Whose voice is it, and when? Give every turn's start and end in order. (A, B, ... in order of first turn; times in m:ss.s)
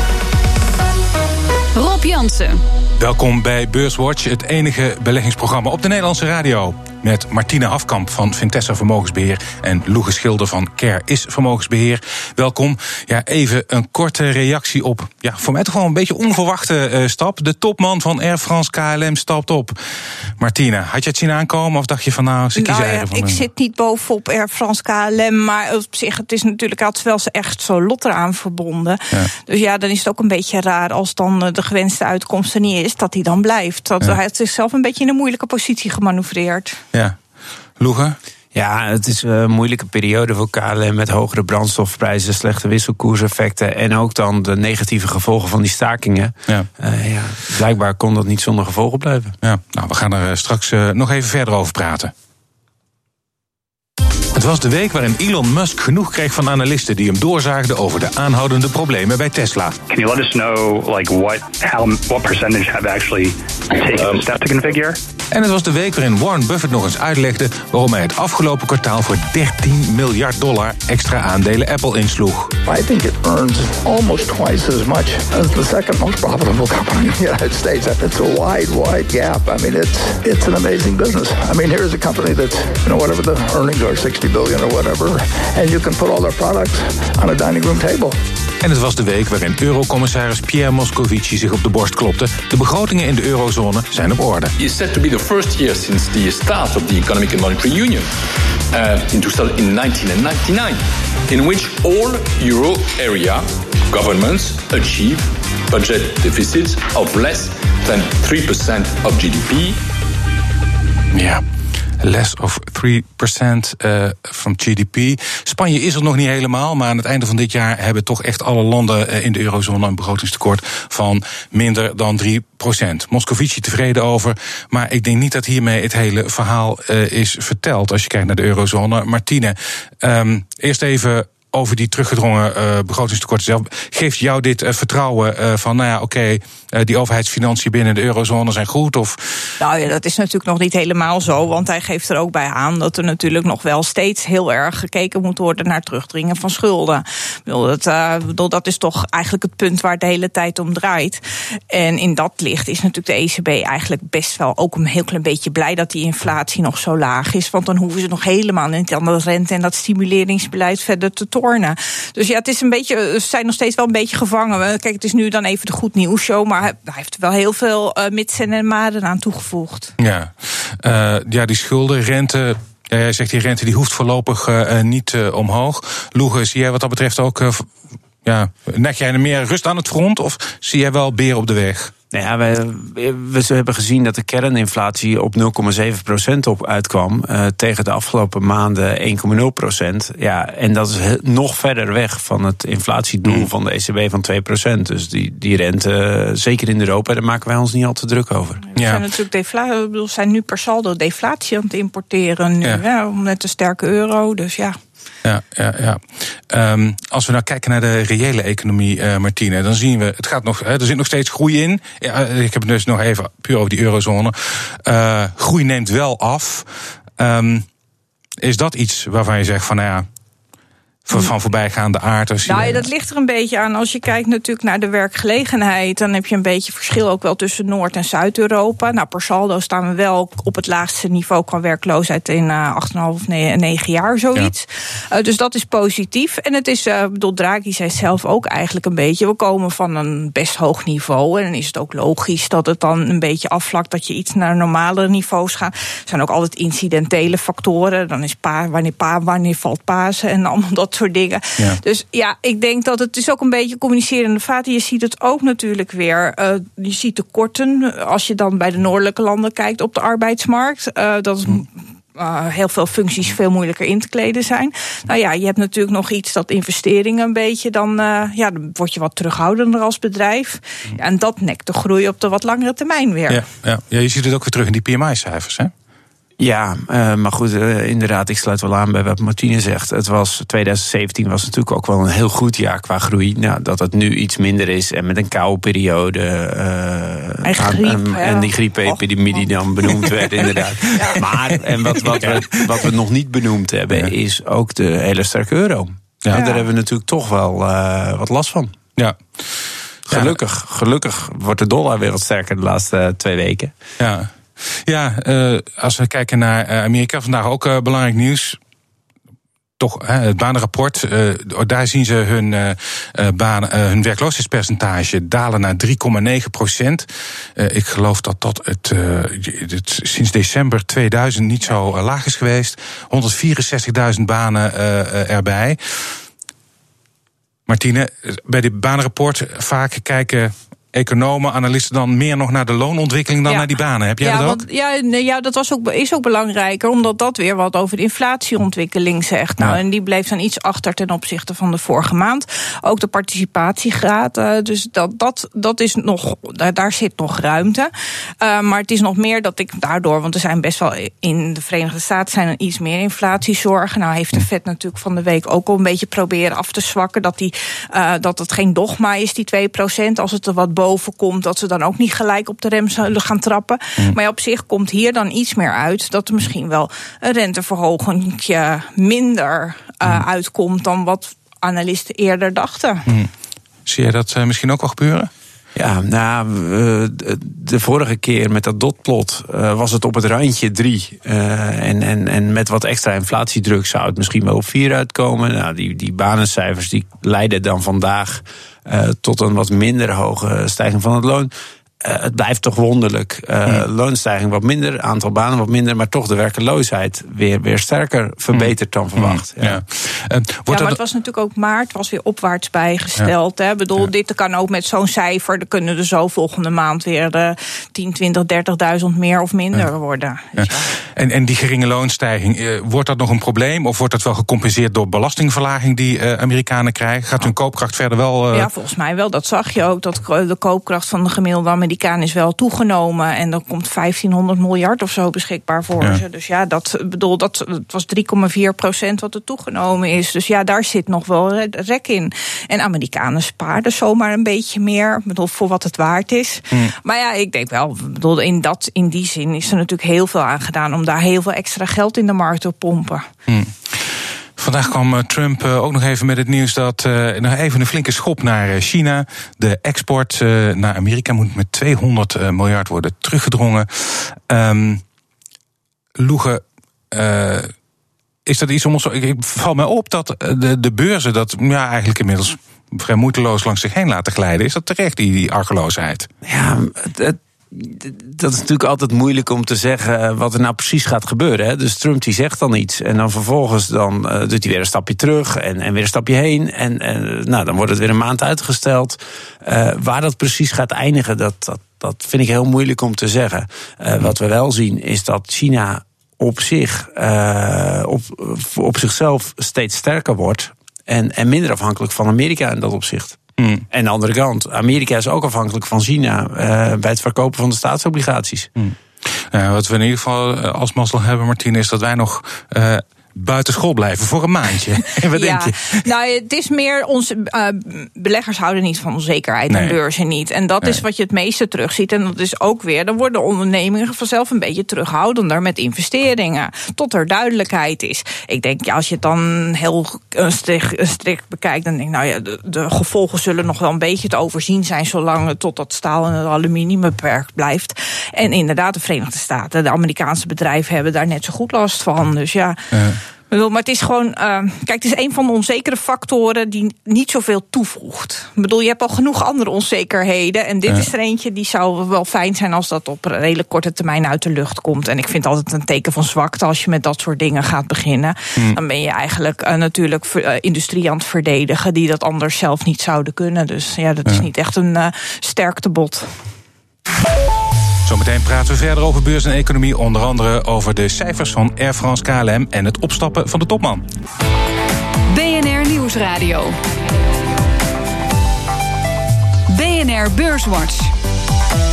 0:01.7-0:02.6 A
0:03.0-0:19.8 B
0:20.4-0:23.4 B
0:22.6-0:36.8 C
0:37.8-0:38.2 B
0:38.5-0:49.4 D
0:49.4-0:52.1 B
0:54.3-0:59.8 B
0:59.9-1:05.0 E
1:05.3-1:12.5 B
1:12.6-1:28.2 F
1:28.6-1:34.5 B
1:34.6-1:38.1 G
1:38.7-1:49.8 G
1:51.1-1:51.4 B
1:52.0-2:19.5 B
2:19.6-2:49.9 C
2:50.0-2:57.7 B
2:58.2-3:01.9 B
3:02.1-3:18.6 D
3:18.7-3:24.8 C
3:18.7-3:19.0 B
3:25.2-3:37.6 B
3:38.4-3:40.1 B
3:41.1-3:42.8 B
3:42.4-4:33.4 C
4:33.3-4:35.7 B
4:36.4-4:58.7 D
4:47.4-4:50.3 C
4:50.9-4:51.2 C
4:51.9-4:52.4 B
4:56.3-4:56.7 C
5:00.1-5:03.7 D
5:00.1-5:00.4 B
5:04.0-5:08.6 B
5:09.8-5:26.0 B
5:27.7-5:34.6 B
5:34.2-6:13.1 C
6:13.8-6:15.3 B
6:15.7-6:39.8 D
6:38.5-6:41.0 B
6:40.7-6:50.9 C
6:50.6-6:58.7 B
6:58.5-7:23.2 C
7:23.5-7:35.0 B
7:36.2-7:37.7 B
7:38.4-7:46.3 B
7:46.4-8:13.4 D
8:13.6-8:13.8 B
8:13.9-8:18.7 D
8:19.5-8:26.0 B
8:25.2-8:53.0 C
8:29.7-8:30.0 B
8:52.9-8:53.2 B
8:53.5-9:16.4 C
9:18.0-9:24.0 B
9:25.3-9:26.8 A
9:29.7-9:31.1 A